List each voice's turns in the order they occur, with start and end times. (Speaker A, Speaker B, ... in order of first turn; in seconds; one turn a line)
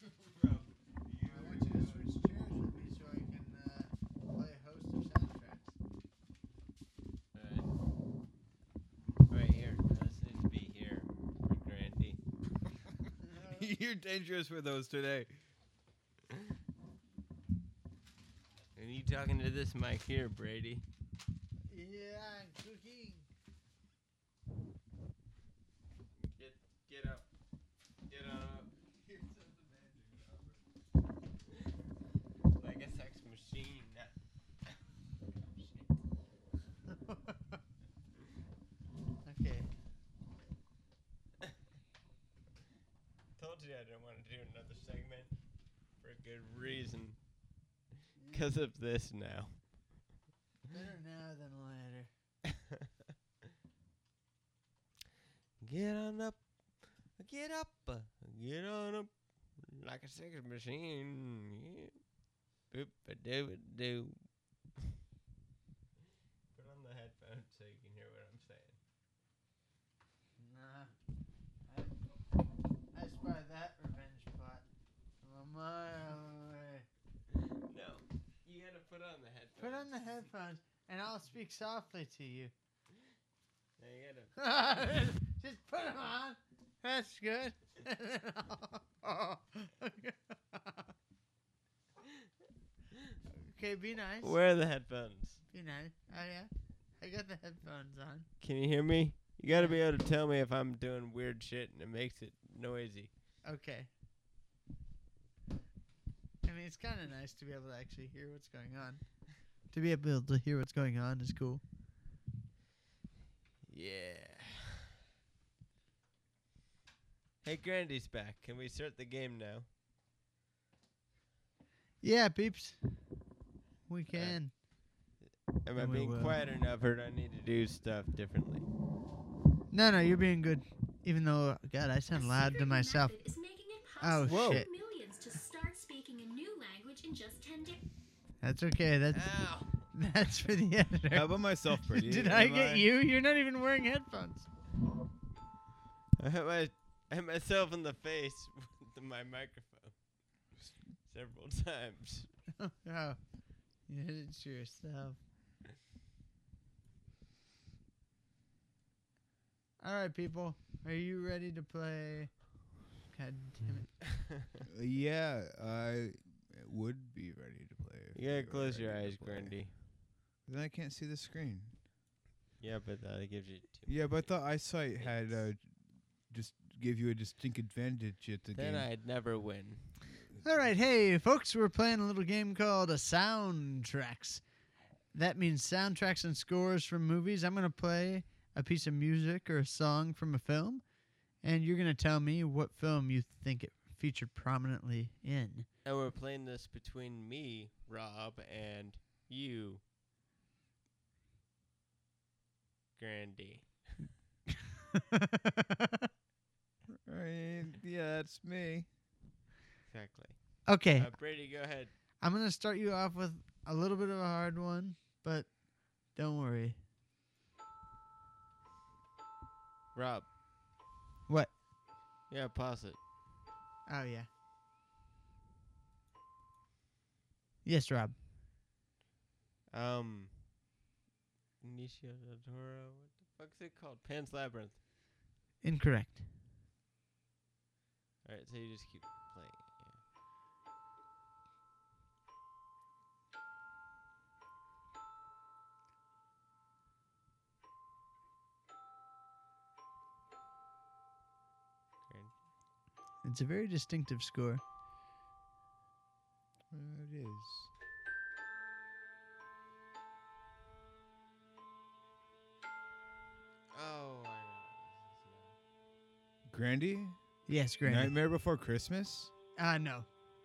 Speaker A: 1.2-5.7
Speaker B: 7.3-7.7
Speaker B: 9.3-12.2
Speaker A: 13.2-13.7
Speaker C: 13.4-15.3
Speaker B: 18.8-20.8
Speaker A: 21.7-23.3
Speaker B: 26.2-27.3
Speaker B: 28.1-30.5
Speaker B: 32.6-34.1
Speaker A: 36.9-37.6
Speaker A: 39.2-39.7
Speaker B: 43.4-45.3
Speaker B: 46.0-47.2
Speaker A: 48.1-48.5
Speaker B: 48.3-49.7
Speaker A: 50.7-52.1
Speaker B: 55.6-56.4
Speaker B: 57.2-62.0
Speaker B: 62.7-64.3
Speaker B: 66.5-68.8
Speaker A: 70.4-70.9
Speaker A: 71.7-72.0
Speaker A: 72.9-74.7
Speaker A: 75.2-76.8
Speaker B: 77.3-80.1
Speaker A: 79.6-82.5
Speaker B: 83.8-84.4
Speaker A: 84.4-90.9
Speaker A: 93.3-94.4
Speaker B: 94.2-95.4
Speaker A: 95.5-98.3
Speaker B: 98.4-103.1
Speaker A: 99.5-99.8
Speaker A: 103.4-103.9
Speaker A: 106.4-109.0
Speaker A: 109.7-111.6
Speaker B: 113.7-114.9
Speaker B: 117.4-119.7
Speaker A: 122.0-122.8
Speaker A: 123.9-124.5
Speaker B: 124.1-124.4
Speaker B: 125.2-128.7
Speaker A: 125.7-126.4
Speaker A: 129.7-133.1
Speaker D: 132.1-137.8
Speaker A: 134.0-134.7
Speaker C: 134.2-134.6
Speaker A: 138.4-144.5
Speaker B: 139.1-139.9
Speaker C: 141.1-142.9
Speaker B: 146.2-150.0
Speaker B: 151.0-152.3
Speaker A: 152.6-153.3
Speaker A: 153.9-155.2
Speaker A: 159.8-162.3
Speaker A: 163.1-163.9
Speaker C: 164.7-169.5
Speaker B: 168.1-169.7
Speaker C: 170.4-171.7
Speaker B: 172.6-175.4
Speaker C: 173.9-175.7
Speaker C: 176.3-178.9
Speaker B: 178.5-179.9
Speaker A: 180.4-184.4
Speaker A: 185.1-190.8
Speaker A: 191.4-195.7
Speaker B: 195.8-199.8
Speaker B: 203.0-204.0
Speaker A: 204.9-206.1
Speaker C: 207.1-208.9
Speaker B: 209.8-211.9
Speaker A: 210.7-211.2
Speaker A: 212.2-216.8
Speaker B: 219.9-220.3
Speaker B: 222.3-223.0
Speaker A: 223.8-224.3
Speaker A: 227.6-228.2
Speaker B: 229.7-230.5
Speaker B: 231.6-234.8
Speaker A: 235.6-236.2
Speaker B: 238.2-240.0
Speaker B: 252.1-252.4
Speaker A: 253.2-254.6
Speaker C: 256.7-257.7
Speaker B: 263.7-265.6
Speaker C: 266.5-267.2
Speaker A: 267.5-268.1
Speaker C: 267.8-269.3
Speaker A: 269.6-270.1